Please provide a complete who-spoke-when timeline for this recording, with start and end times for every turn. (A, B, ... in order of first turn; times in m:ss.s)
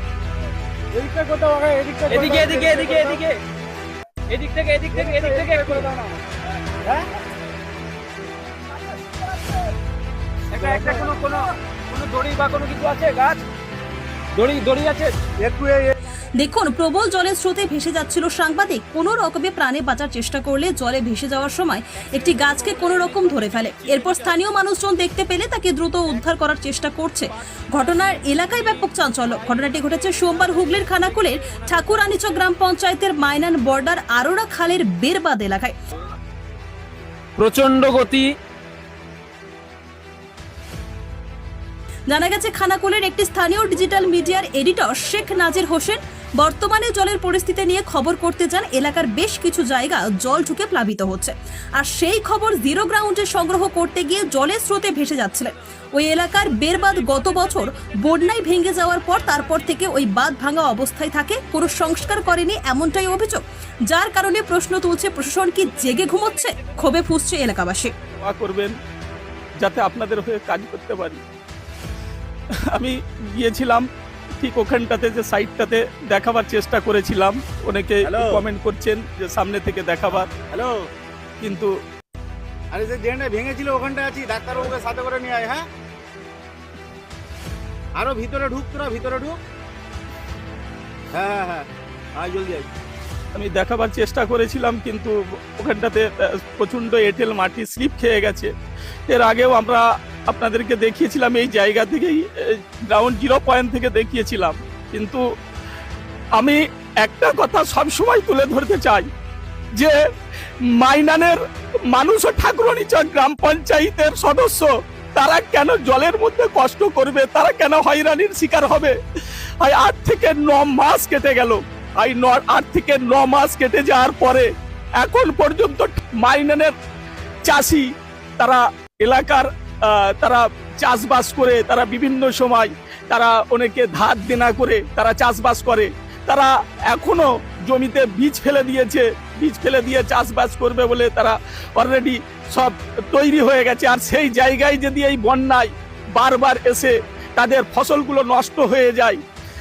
0:00.9-0:03.2 A
0:02.1-0:03.4 B
0:04.3-0:05.9 B
0:04.9-0:06.1 A
0:10.5-0:13.4 B
0:10.6-0:11.1 A
0:14.4-0:15.2 B
0:15.4-0:16.0 A
0:16.4-0:35.8 C
0:37.4-0:38.3 B
0:42.1-1:07.9 C
1:08.2-1:08.7 D
1:09.6-1:11.2 D
1:12.8-1:13.9 D
1:14.4-1:20.3 D
1:18.0-1:18.4 A
1:20.5-1:20.8 A
1:21.4-1:21.7 D
1:22.7-1:25.6 A
1:28.0-1:29.4 A
1:31.1-1:32.7 A
1:33.4-1:36.0 D
1:36.6-1:38.5 D
1:39.1-1:42.2 D
1:42.9-1:45.2 D
1:46.4-1:49.1 D
1:50.8-1:51.4 D
1:51.9-1:58.9 D
1:59.6-2:06.7 D
2:07.5-2:07.8 D
2:08.4-2:29.2 D